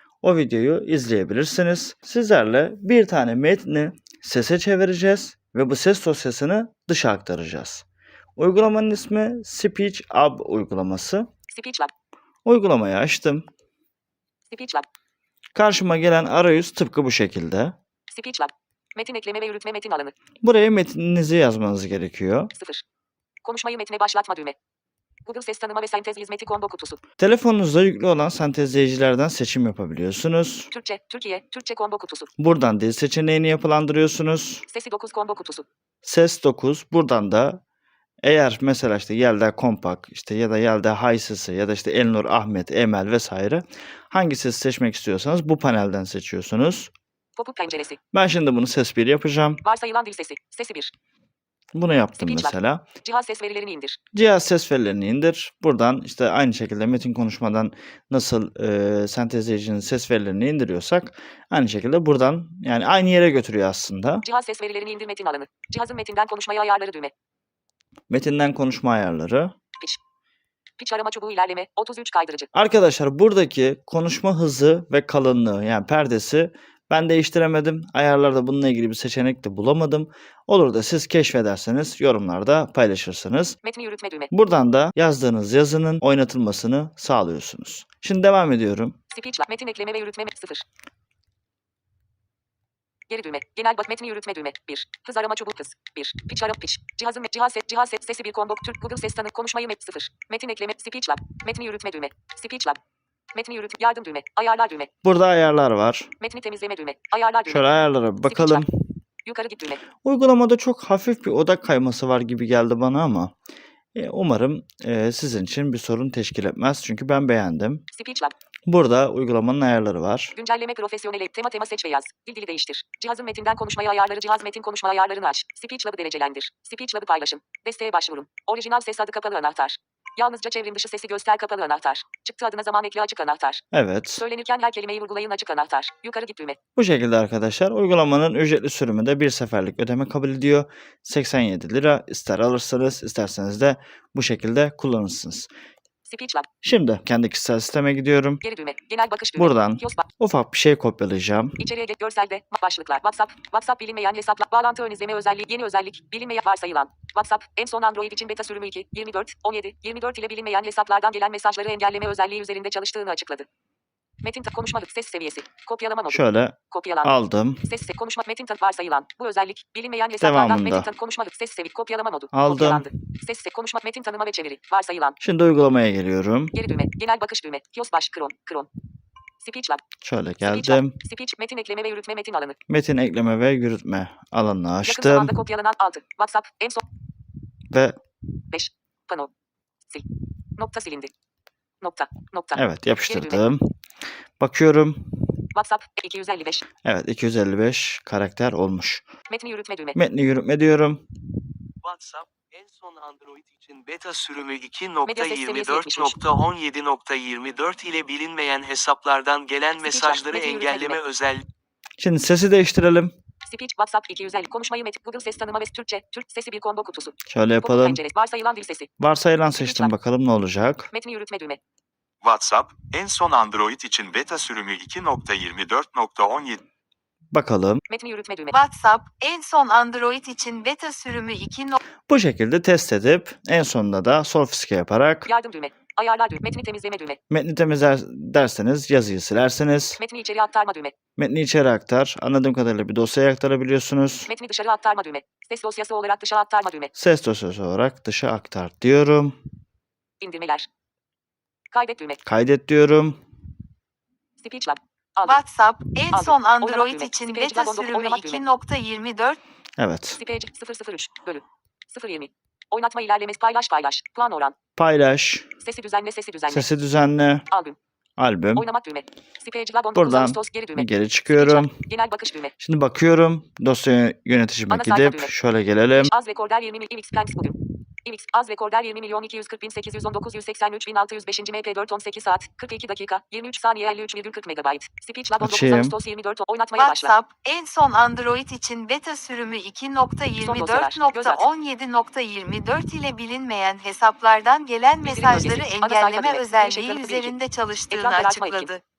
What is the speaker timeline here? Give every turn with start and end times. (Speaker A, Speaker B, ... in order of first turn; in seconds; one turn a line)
Speaker A: 0.2-7.8
Speaker A: 8.4-11.3
Speaker B: 11.5-11.9
Speaker A: 12.4-13.5
Speaker B: 14.5-14.9
Speaker A: 15.5-17.7
Speaker B: 18.1-20.1
Speaker A: 20.4-22.5
Speaker B: 22.5-22.8
Speaker B: 23.4-24.6
Speaker B: 25.2-27.0
Speaker A: 27.2-30.7
Speaker B: 30.7-32.3
Speaker A: 32.4-34.6
Speaker B: 34.7-35.6
Speaker A: 36.0-37.6
Speaker A: 38.2-46.9
Speaker B: 47.4-48.0
Speaker A: 48.1-49.6
Speaker B: 49.6-50.9
Speaker A: 51.7-52.8
Speaker B: 52.2-54.0
Speaker A: 54.1-64.2
Speaker B: 64.2-67.1
Speaker A: 68.1-69.5
Speaker B: 70.8-72.5
Speaker A: 72.5-83.6
Speaker B: 83.6-84.3
Speaker A: 84.3-89.0
Speaker B: 89.1-90.6
Speaker B: 93.1-102.8
Speaker B: 103.3-104.9
Speaker A: 105.0-106.1
Speaker B: 106.2-107.7
Speaker A: 107.5-108.7
Speaker B: 108.2-108.6
Speaker B: 109.2-109.8
Speaker A: 110.0-113.3
Speaker A: 113.9-117.8
Speaker B: 117.9-118.3
Speaker A: 118.7-120.3
Speaker B: 120.3-133.6
Speaker A: 133.7-134.2
Speaker B: 134.2-136.6
Speaker A: 136.8-145.5
Speaker B: 146.1-146.5
Speaker A: 146.6-148.4
Speaker B: 148.4-150.1
Speaker A: 149.3-151.6
Speaker B: 151.6-163.5
Speaker B: 164.2-175.2
Speaker A: 166.1-167.7
Speaker A: 170.2-170.9
Speaker A: 172.3-172.9
Speaker A: 175.2-176.6
Speaker B: 176.5-178.7
Speaker B: 179.4-179.8
Speaker A: 180.0-181.0
Speaker B: 180.4-182.6
Speaker A: 182.7-185.3
Speaker B: 184.8-186.8
Speaker A: 187.7-188.0
Speaker B: 188.5-189.3
Speaker B: 190.6-191.1
Speaker B: 191.8-193.4
Speaker A: 192.5-193.7
Speaker A: 194.4-195.2
Speaker B: 195.5-196.6
Speaker A: 196.8-199.1
Speaker B: 199.3-200.0
Speaker A: 199.9-201.0
Speaker C: 201.8-211.4
Speaker B: 205.0-206.2
Speaker B: 209.8-211.0
Speaker A: 212.0-213.1
Speaker B: 213.4-218.9
Speaker A: 217.3-218.0
Speaker A: 219.0-220.9
Speaker B: 219.6-219.9
Speaker B: 220.9-221.6
Speaker D: 222.2-226.6
Speaker A: 227.3-227.8
Speaker B: 227.9-228.5
Speaker E: 228.5-231.8
Speaker A: 232.1-235.3
Speaker B: 235.3-237.2
Speaker A: 237.3-240.0
Speaker B: 240.0-240.9
Speaker A: 241.2-244.3
Speaker B: 244.3-246.9
Speaker A: 246.9-249.3
Speaker B: 250.2-250.7
Speaker B: 251.7-252.2
Speaker A: 252.2-253.2
Speaker B: 254.4-255.4
Speaker E: 255.2-259.4
Speaker B: 256.1-258.4
Speaker A: 259.8-260.2
Speaker B: 260.2-264.5
Speaker A: 264.8-265.5
Speaker B: 265.6-266.7
Speaker A: 266.5-267.4
Speaker B: 267.5-267.8
Speaker A: 268.2-268.7
Speaker B: 268.5-272.5
Speaker A: 269.9-271.8
Speaker A: 272.6-276.1
Speaker B: 274.7-275.3
Speaker B: 276.0-287.1
Speaker A: 285.4-285.9
Speaker E: 286.8-298.8
Speaker B: 290.4-291.4
Speaker B: 295.0-297.3
Speaker B: 297.9-298.7